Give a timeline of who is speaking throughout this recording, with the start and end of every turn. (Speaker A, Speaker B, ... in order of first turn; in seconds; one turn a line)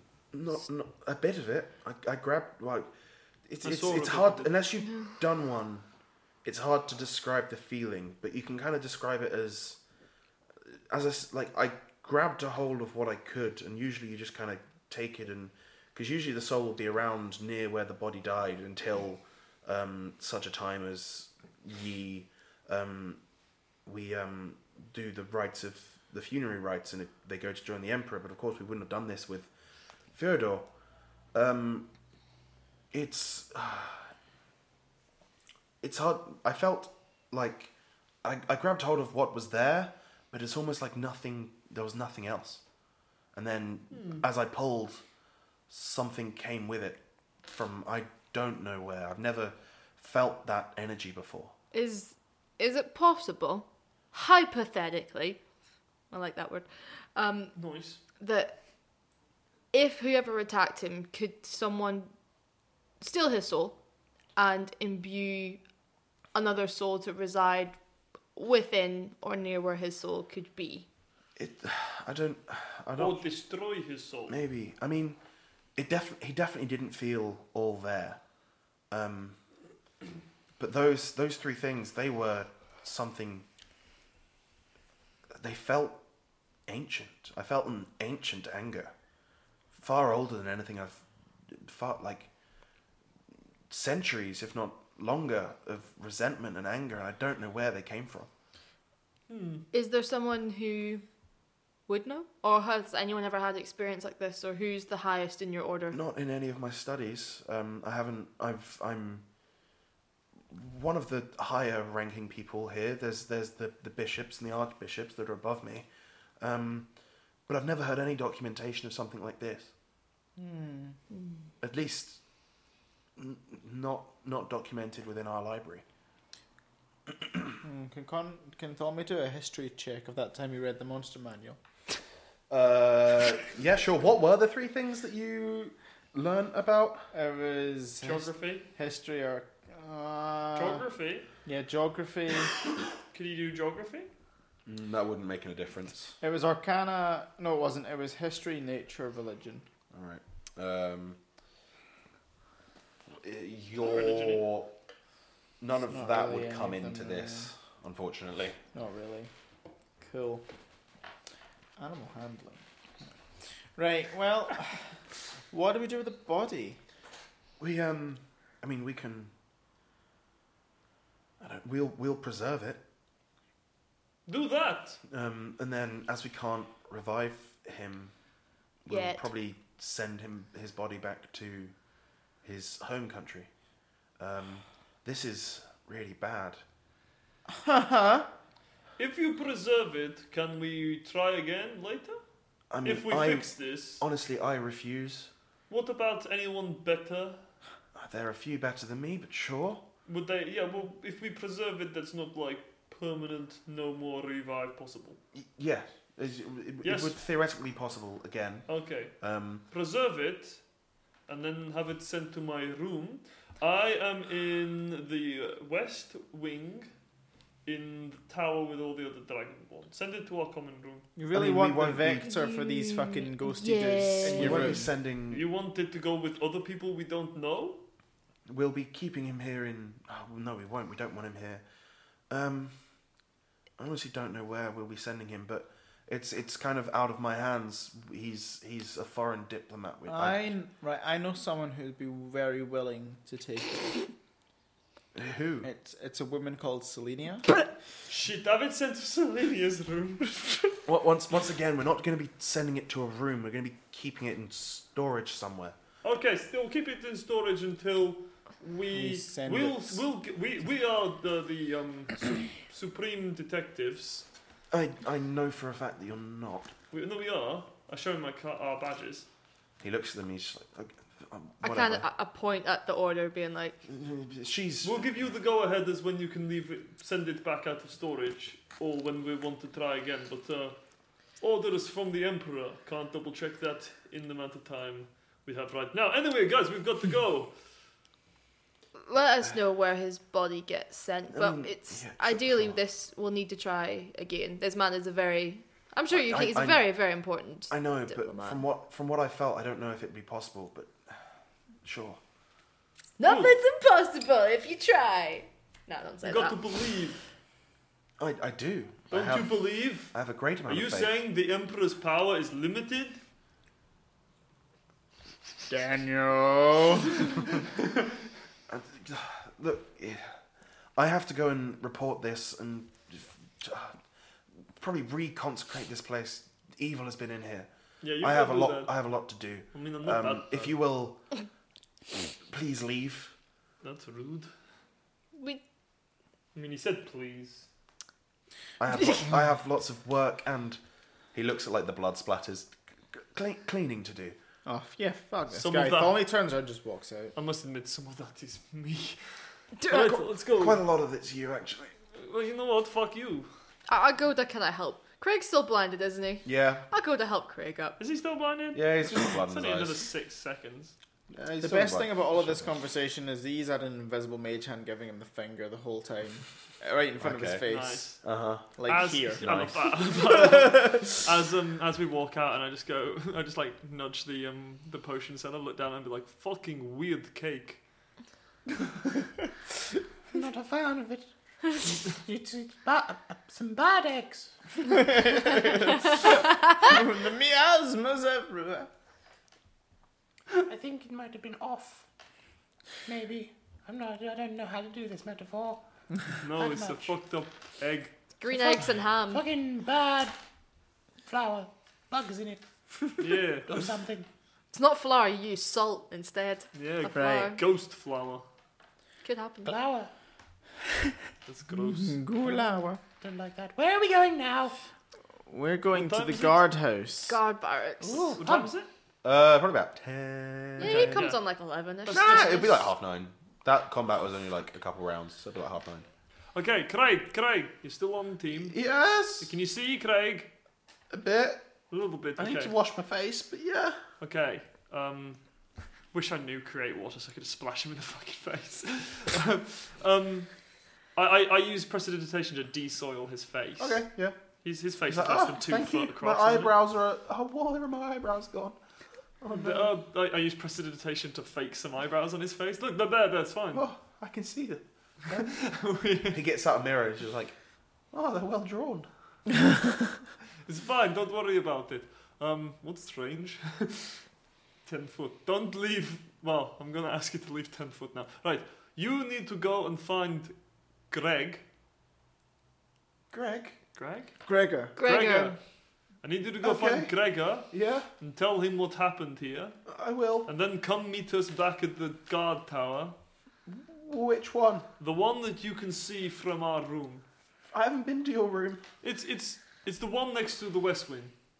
Speaker A: 0.3-2.9
Speaker A: 3.5-5.8
Speaker B: 3.6-4.5
Speaker A: 6.4-9.8
Speaker A: 10.7-23.2
Speaker A: 23.8-29.5
Speaker A: 30.1-30.7
Speaker A: 31.3-31.9
Speaker A: 32.9-34.1
Speaker A: 35.8-37.7
Speaker A: 38.2-42.6
Speaker A: 43.3-45.0
Speaker B: 43.9-44.2
Speaker A: 45.7-51.5
Speaker C: 51.7-55.4
Speaker C: 56.1-57.5
Speaker B: 57.5-58.0
Speaker C: 58.2-58.5
Speaker C: 59.7-62.1
Speaker C: 63.0-63.8
Speaker C: 64.3-65.6
Speaker C: 66.3-67.8
Speaker C: 68.3-70.8
Speaker A: 71.4-73.2
Speaker B: 73.0-74.3
Speaker A: 74.3-75.2
Speaker A: 75.8-78.2
Speaker A: 78.9-79.4
Speaker A: 80.6-83.5
Speaker A: 85.3-86.0
Speaker A: 86.7-88.9
Speaker A: 89.7-92.3
Speaker A: 93.7-98.3
Speaker B: 99.3-99.7
Speaker C: 99.7-101.0
Speaker C: 101.9-106.0
Speaker A: 105.9-109.2
Speaker A: 110.5-115.9
Speaker A: 116.4-116.9
Speaker A: 117.5-119.7
Speaker D: 120.4-121.0
Speaker A: 121.6-122.2
Speaker A: 123.2-125.8
Speaker D: 127.6-131.6
Speaker A: 132.5-137.1
Speaker D: 137.1-140.8
Speaker B: 138.0-138.7
Speaker B: 140.5-141.3
Speaker D: 141.4-142.6
Speaker B: 143.1-144.1
Speaker A: 144.7-146.1
Speaker D: 146.2-149.7
Speaker A: 149.9-151.2
Speaker A: 153.1-154.7
Speaker B: 153.8-154.4
Speaker A: 155.6-158.6
Speaker D: 155.8-157.5
Speaker D: 158.7-159.3
Speaker D: 160.0-160.4
Speaker D: 161.8-162.6
Speaker D: 163.7-165.0
Speaker D: 165.5-166.8
Speaker A: 167.6-169.3
Speaker A: 171.4-172.8
Speaker B: 174.2-175.0
Speaker A: 175.1-178.1
Speaker A: 178.8-181.7
Speaker C: 178.9-179.2
Speaker A: 182.4-183.5
Speaker A: 184.2-186.6
Speaker D: 187.5-188.3
Speaker B: 189.0-192.2
Speaker A: 192.7-195.3
Speaker B: 192.8-194.0
Speaker B: 195.7-197.4
Speaker A: 197.9-199.8
Speaker B: 200.1-205.2
Speaker A: 205.3-209.6
Speaker B: 206.8-207.2
Speaker B: 208.7-209.1
Speaker B: 209.7-210.6
Speaker B: 211.3-216.9
Speaker B: 217.6-221.1
Speaker D: 221.2-224.9
Speaker A: 221.3-222.3
Speaker C: 222.2-224.6
Speaker A: 224.3-225.4
Speaker B: 224.3-227.8
Speaker A: 228.5-231.6
Speaker A: 232.3-232.8
Speaker A: 233.8-240.5
Speaker D: 240.1-244.1
Speaker A: 245.1-245.7
Speaker D: 245.6-247.6
Speaker B: 248.1-250.8
Speaker A: 250.8-255.8
Speaker B: 256.0-264.2
Speaker D: 258.9-260.0
Speaker A: 264.7-266.7
Speaker B: 266.9-269.3
Speaker A: 269.8-272.1
Speaker C: 271.6-273.8
Speaker A: 273.9-275.1
Speaker B: 274.8-287.5
Speaker C: 289.0-298.6
Speaker A: 291.3-292.8
Speaker A: 296.1-296.8
Speaker A: 297.7-301.0
Speaker A: 301.8-302.2
Speaker C: 303.2-306.6
Speaker B: 303.2-303.6
Speaker B: 306.2-307.2
Speaker A: 308.2-311.1
Speaker B: 309.1-313.2
Speaker D: 315.7-317.4
Speaker A: 318.7-320.4
Speaker A: 320.9-324.0
Speaker A: 324.8-327.7
Speaker B: 328.0-329.0
Speaker A: 328.2-331.2
Speaker B: 329.7-330.8
Speaker A: 332.4-333.3
Speaker B: 333.8-334.5
Speaker C: 335.4-335.6
Speaker B: 336.5-337.7
Speaker A: 338.8-340.8
Speaker A: 341.3-344.4
Speaker D: 344.6-347.3
Speaker B: 345.5-346.2
Speaker B: 347.3-350.8
Speaker C: 349.8-350.2
Speaker A: 350.5-351.9
Speaker B: 352.1-353.5
Speaker C: 353.9-358.0
Speaker A: 356.4-356.9
Speaker B: 358.0-360.9
Speaker A: 358.7-360.0
Speaker A: 361.3-362.8
Speaker D: 361.6-368.2
Speaker A: 367.2-368.7
Speaker B: 367.7-368.3
Speaker D: 368.8-369.6
Speaker B: 368.9-377.8
Speaker A: 369.4-369.9
Speaker D: 370.2-371.0
Speaker E: 380.3-381.3
Speaker E: 381.8-384.5
Speaker D: 384.8-388.9
Speaker E: 390.6-392.0
Speaker E: 393.1-397.1
Speaker B: 396.4-398.1
Speaker C: 398.4-399.4
Speaker E: 398.5-400.3
Speaker E: 401.2-404.2
Speaker B: 403.2-403.7
Speaker C: 404.7-407.6
Speaker B: 406.7-408.4
Speaker D: 407.1-407.5
Speaker C: 409.2-409.7
Speaker E: 409.6-410.1
Speaker B: 411.4-412.2
Speaker D: 411.7-413.0
Speaker E: 413.2-414.7
Speaker D: 415.5-417.4
Speaker B: 415.9-416.6
Speaker C: 417.3-418.4
Speaker E: 418.0-418.7
Speaker B: 418.4-418.9
Speaker A: 419.2-421.3
Speaker C: 420.8-422.9
Speaker B: 420.8-421.4
Speaker B: 422.1-422.5
Speaker A: 422.1-426.1
Speaker B: 426.5-428.8
Speaker A: 428.6-429.5
Speaker B: 429.3-430.5
Speaker A: 431.1-431.6
Speaker B: 431.9-432.7
Speaker A: 432.4-434.0
Speaker B: 434.2-435.4
Speaker B: 436.1-446.7
Speaker A: 443.8-444.4
Speaker A: 445.1-448.8
Speaker A: 449.4-449.9
Speaker B: 449.5-453.9
Speaker A: 453.7-455.6
Speaker B: 455.3-456.4
Speaker A: 456.3-457.6
Speaker A: 458.1-459.1
Speaker B: 460.6-464.2
Speaker B: 464.8-470.5
Speaker B: 471.1-471.6
Speaker A: 473.3-473.8
Speaker B: 473.9-474.3
Speaker D: 474.4-474.9
Speaker B: 474.9-475.6
Speaker C: 475.0-475.6
Speaker B: 476.2-479.8
Speaker A: 476.6-477.1
Speaker A: 477.7-478.1
Speaker A: 479.9-480.5
Speaker B: 480.4-483.1
Speaker A: 483.7-484.9
Speaker B: 485.0-487.2
Speaker A: 487.7-488.8
Speaker B: 489.0-491.3